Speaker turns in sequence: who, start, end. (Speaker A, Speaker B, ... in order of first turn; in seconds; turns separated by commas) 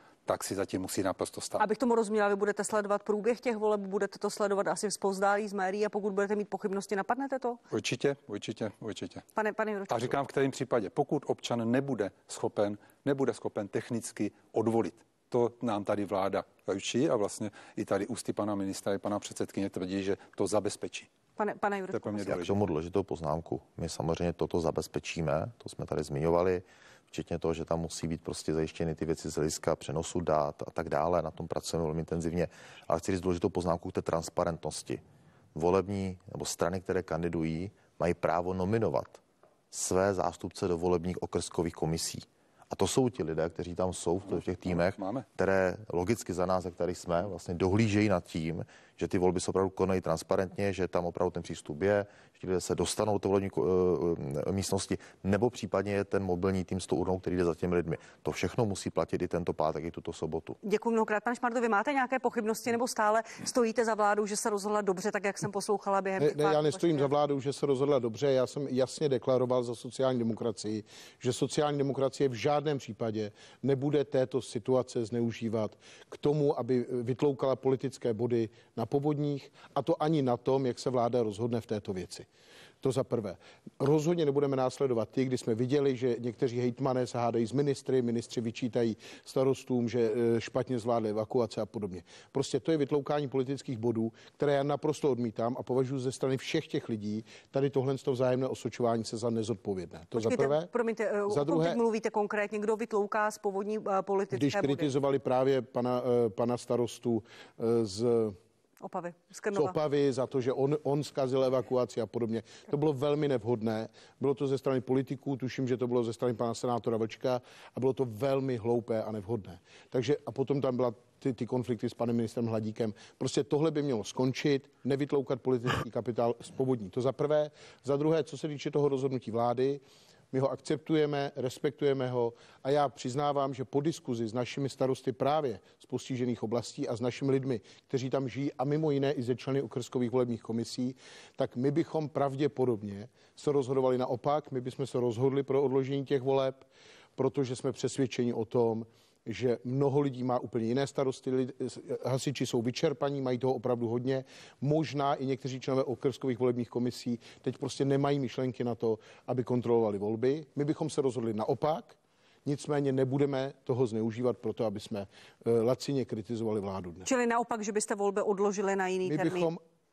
Speaker A: 0.3-1.6, Speaker B: 1.6-7.6, Speaker A: 7.7-9.2, Speaker B: 9.3-10.1, Speaker A: 9.9-21.1, Speaker B: 21.4-22.3, Speaker A: 21.9-22.6, Speaker C: 22.3-35.0, Speaker C: 35.5-39.2, Speaker C: 39.7-60.6, Speaker A: 44.7-45.2, Speaker B: 60.6-67.1, Speaker D: 66.2-82.3, Speaker D: 82.8-100.7, Speaker B: 100.2-104.9, Speaker D: 101.3-101.8, Speaker D: 104.3-108.4, Speaker B: 108.8-109.8, Speaker D: 109.5-129.8, Speaker D: 130.3-146.7, Speaker D: 147.2-167.1, Speaker B: 167.1-169.5, Speaker D: 169.0-169.6